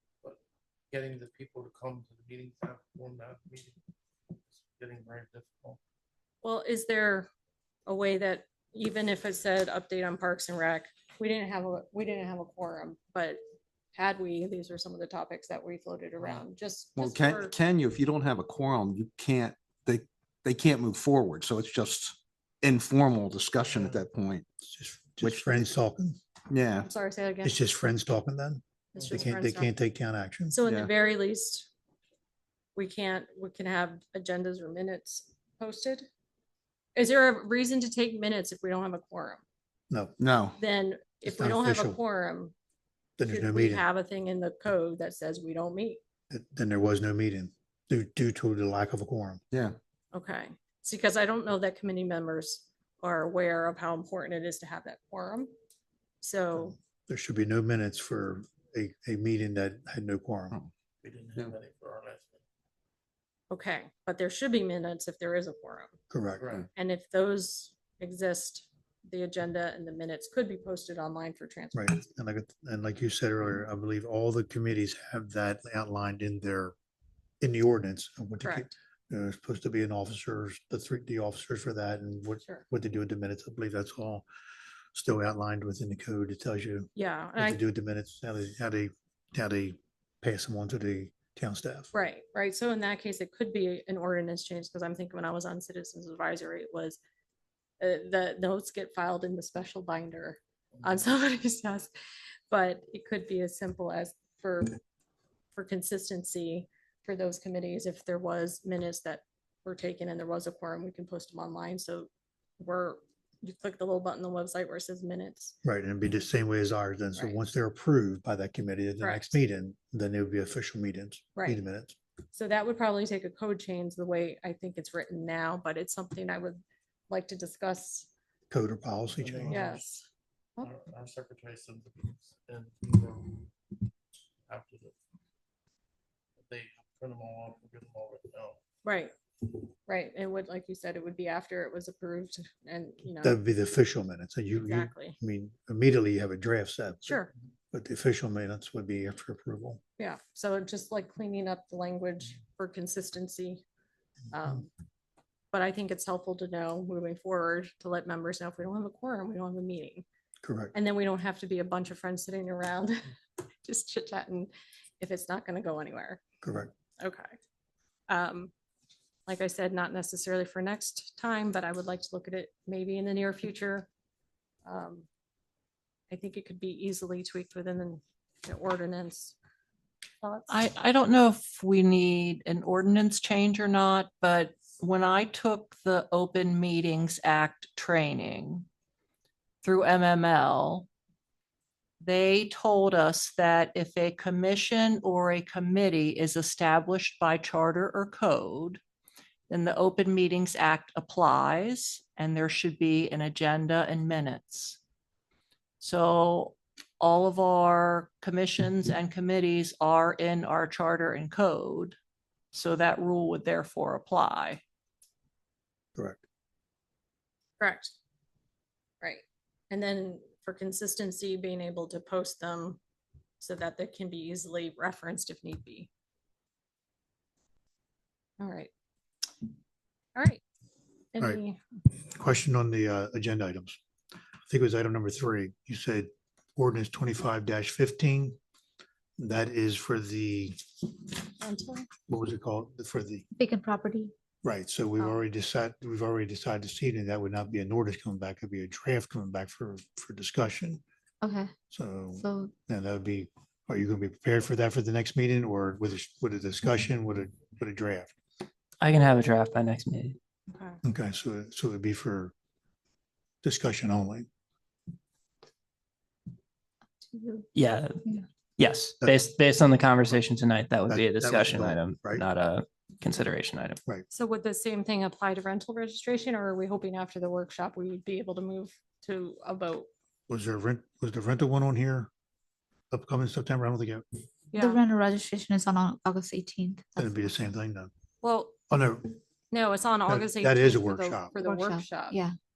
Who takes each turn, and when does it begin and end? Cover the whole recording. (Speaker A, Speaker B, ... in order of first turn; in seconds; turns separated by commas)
Speaker A: 0.9-3.8, Speaker A: 4.5-5.8, Speaker B: 6.4-7.3, Speaker B: 7.8-13.4, Speaker B: 13.9-17.5, Speaker C: 16.9-24.4, Speaker A: 23.6-24.1, Speaker D: 24.6-26.2, Speaker C: 25.2-25.7, Speaker C: 26.5-26.9, Speaker B: 26.8-27.6, Speaker D: 27.4-30.6, Speaker B: 28.9-29.7, Speaker B: 30.5-31.7, Speaker C: 30.6-30.9, Speaker B: 32.8-36.1, Speaker B: 36.9-39.4, Speaker D: 39.9-40.1, Speaker C: 40.2-40.6, Speaker B: 40.6-42.5, Speaker D: 41.2-42.0, Speaker D: 43.2-43.9, Speaker B: 43.2-46.0, Speaker D: 46.3-49.4, Speaker C: 49.5-49.8, Speaker B: 50.1-55.5, Speaker B: 56.2-56.8, Speaker D: 56.6-60.5, Speaker A: 61.0-62.4, Speaker B: 63.5-66.0, Speaker D: 66.1-66.6, Speaker B: 66.7-72.0, Speaker D: 71.7-76.7, Speaker D: 77.4-84.2, Speaker B: 78.4-78.7, Speaker D: 84.9-91.9, Speaker B: 87.0-87.6, Speaker B: 91.9-97.0, Speaker B: 97.8-101.9, Speaker B: 102.5-104.8, Speaker B: 105.5-115.5, Speaker D: 115.6-121.9, Speaker B: 119.0-119.4, Speaker B: 121.3-121.6, Speaker B: 122.3-128.1, Speaker D: 128.5-129.7, Speaker A: 129.2-129.8, Speaker B: 129.5-130.1, Speaker A: 130.6-133.4, Speaker A: 134.5-134.9, Speaker A: 136.4-138.6, Speaker B: 138.8-139.1, Speaker B: 139.9-143.4, Speaker D: 143.2-149.8, Speaker B: 144.6-145.2, Speaker B: 147.1-147.3, Speaker B: 150.0-153.6, Speaker B: 154.3-154.7, Speaker B: 155.5-160.0, Speaker D: 160.4-160.7, Speaker B: 160.7-163.1, Speaker B: 163.6-166.2, Speaker D: 166.4-166.7, Speaker B: 167.0-167.3, Speaker B: 168.1-168.5, Speaker B: 169.3-173.9, Speaker B: 174.7-175.1, Speaker B: 176.1-179.3, Speaker B: 180.2-180.6, Speaker E: 180.5-188.7, Speaker E: 189.6-190.8, Speaker E: 192.0-198.8, Speaker E: 199.5-204.8, Speaker E: 205.8-211.9, Speaker E: 212.5-214.6, Speaker D: 215.9-216.2, Speaker B: 217.6-217.9, Speaker B: 219.0-222.8, Speaker B: 223.4-225.9, Speaker B: 228.4-228.7, Speaker B: 230.1-230.4, Speaker B: 231.1-231.6, Speaker D: 232.1-233.8, Speaker D: 234.5-238.4, Speaker D: 239.2-240.6, Speaker B: 241.4-241.9, Speaker D: 242.1-243.2, Speaker F: 243.3-244.1, Speaker D: 244.4-250.8, Speaker F: 251.2-251.5, Speaker D: 251.7-258.1, Speaker F: 252.1-252.5, Speaker G: 258.8-260.2, Speaker B: 260.5-260.8, Speaker D: 260.8-262.3, Speaker D: 263.4-264.3, Speaker F: 267.1-267.4, Speaker G: 267.5-268.0, Speaker G: 268.6-273.8, Speaker D: 270.9-272.2, Speaker B: 274.1-279.9, Speaker D: 280.3-282.1, Speaker D: 282.9-284.0, Speaker B: 284.5-284.8, Speaker F: 284.5-287.1, Speaker D: 286.9-287.9, Speaker B: 288.2-288.5, Speaker D: 288.7-289.1, Speaker B: 289.5-292.2, Speaker D: 290.1-291.3, Speaker F: 291.4-292.3